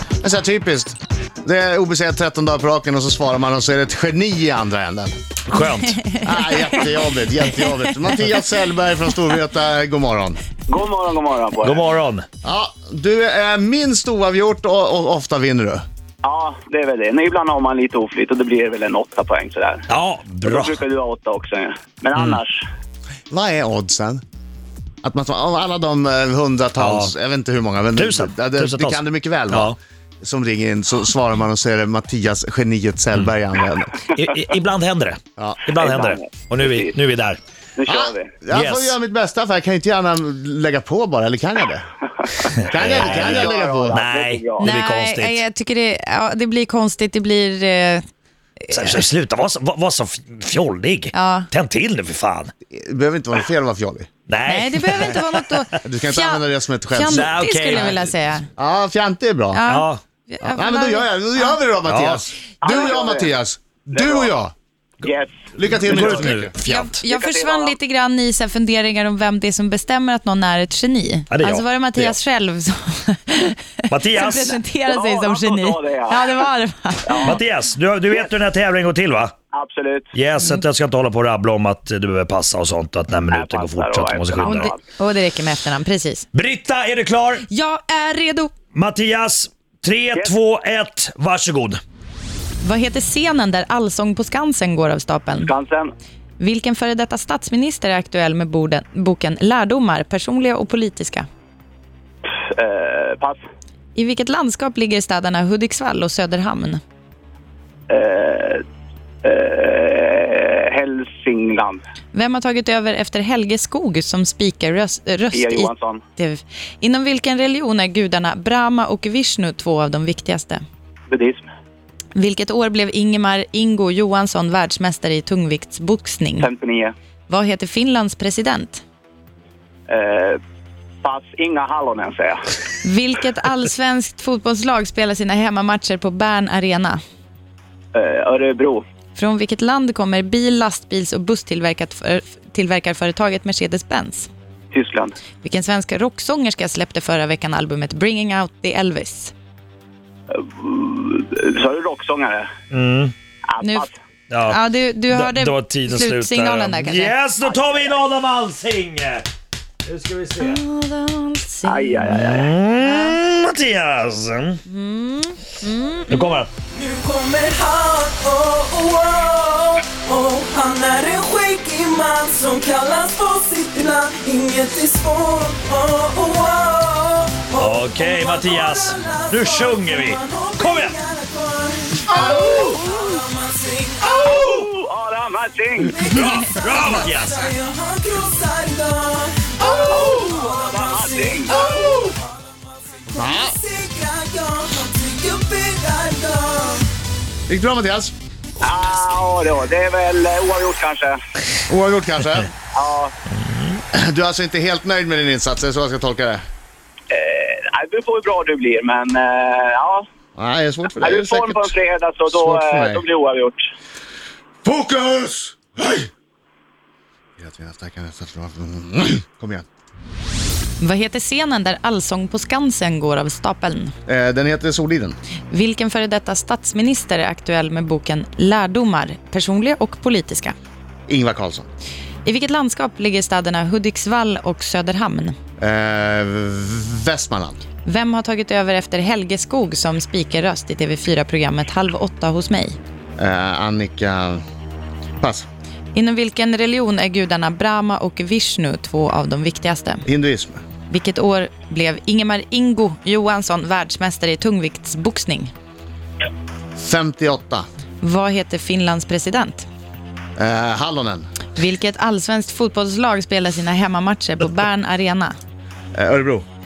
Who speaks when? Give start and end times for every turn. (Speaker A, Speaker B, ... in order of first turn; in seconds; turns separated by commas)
Speaker A: 0.2-5.1, Speaker B: 5.5-6.0, Speaker C: 5.7-6.8, Speaker A: 6.2-10.4, Speaker D: 10.7-11.9, Speaker B: 11.6-12.3, Speaker A: 12.4-15.8, Speaker D: 16.2-19.9, Speaker B: 19.9-20.8, Speaker D: 20.4-22.6, Speaker A: 23.3-24.2, Speaker A: 25.0-34.0, Speaker B: 26.8-27.1, Speaker B: 28.0-29.8, Speaker B: 34.1-37.4, Speaker D: 35.8-37.0, Speaker D: 37.8-38.4, Speaker A: 37.9-41.9, Speaker B: 38.5-38.9, Speaker B: 42.6-45.4, Speaker A: 42.7-44.0, Speaker D: 42.9-44.7, Speaker C: 44.6-48.0, Speaker B: 48.7-52.5, Speaker C: 51.1-51.5, Speaker A: 52.7-54.1, Speaker B: 54.3-55.8, Speaker C: 54.5-58.5, Speaker A: 55.8-57.3, Speaker B: 57.1-58.1, Speaker A: 58.6-59.6, Speaker C: 59.5-61.6, Speaker B: 59.7-60.0, Speaker A: 60.5-64.5, Speaker B: 61.9-62.2, Speaker D: 62.6-63.3, Speaker D: 63.9-64.3, Speaker D: 65.0-66.2, Speaker A: 65.6-66.5, Speaker B: 65.7-67.0, Speaker C: 66.6-77.4, Speaker D: 67.0-67.8, Speaker B: 71.3-72.2, Speaker B: 73.9-74.6, Speaker D: 74.4-76.4, Speaker D: 77.0-77.4, Speaker B: 77.2-79.3, Speaker D: 79.5-80.1, Speaker B: 80.1-84.7, Speaker D: 83.3-84.8, Speaker C: 84.4-86.3, Speaker B: 86.3-87.5, Speaker C: 87.5-88.5, Speaker B: 88.7-91.8, Speaker C: 92.6-95.5, Speaker D: 95.3-95.9, Speaker C: 96.4-101.3, Speaker D: 102.4-103.4, Speaker C: 104.0-106.8, Speaker D: 107.9-108.6, Speaker D: 109.2-111.8, Speaker C: 112.1-120.6, Speaker D: 115.3-116.0, Speaker D: 121.1-121.5, Speaker C: 122.2-126.5, Speaker D: 126.4-126.9, Speaker C: 127.3-128.8, Speaker D: 129.9-130.4, Speaker D: 131.0-132.5, Speaker C: 132.8-137.0, Speaker D: 137.9-138.8, Speaker C: 139.2-144.3, Speaker D: 144.7-145.2, Speaker C: 145.4-149.3, Speaker D: 150.3-152.5, Speaker B: 152.7-153.1, Speaker D: 153.5-153.9, Speaker C: 153.6-153.9, Speaker B: 154.3-154.6, Speaker C: 154.5-158.0, Speaker B: 155.1-159.3, Speaker B: 159.8-160.6, Speaker C: 160.4-162.2, Speaker D: 161.6-162.6, Speaker B: 162.0-164.6, Speaker C: 162.8-163.2, Speaker C: 164.7-166.4, Speaker B: 166.1-166.5, Speaker E: 166.7-184.6, Speaker B: 177.6-181.0, Speaker A: 182.2-182.6, Speaker D: 184.2-186.0, Speaker E: 185.9-192.3, Speaker B: 186.1-187.5, Speaker D: 189.9-192.0, Speaker E: 192.9-196.9, Speaker A: 193.1-193.6, Speaker A: 197.5-198.1, Speaker D: 198.6-201.2, Speaker A: 201.7-202.5, Speaker D: 202.7-203.1, Speaker B: 203.4-203.8, Speaker A: 203.9-206.4, Speaker D: 207.1-210.1, Speaker A: 210.4-211.7, Speaker D: 211.0-213.7, Speaker A: 212.3-213.1, Speaker A: 214.6-216.1, Speaker A: 217.4-219.7, Speaker C: 220.8-223.9, Speaker A: 224.1-225.2, Speaker C: 225.5-230.6, Speaker A: 231.1-231.7, Speaker C: 232.2-235.3, Speaker A: 235.6-237.6, Speaker C: 237.8-242.8, Speaker A: 243.2-244.4, Speaker A: 245.2-245.5, Speaker C: 245.9-250.1, Speaker A: 250.1-250.6, Speaker C: 250.9-255.5, Speaker A: 256.8-257.6, Speaker C: 258.0-259.7, Speaker A: 260.4-261.3, Speaker C: 261.6-265.4, Speaker A: 265.9-266.4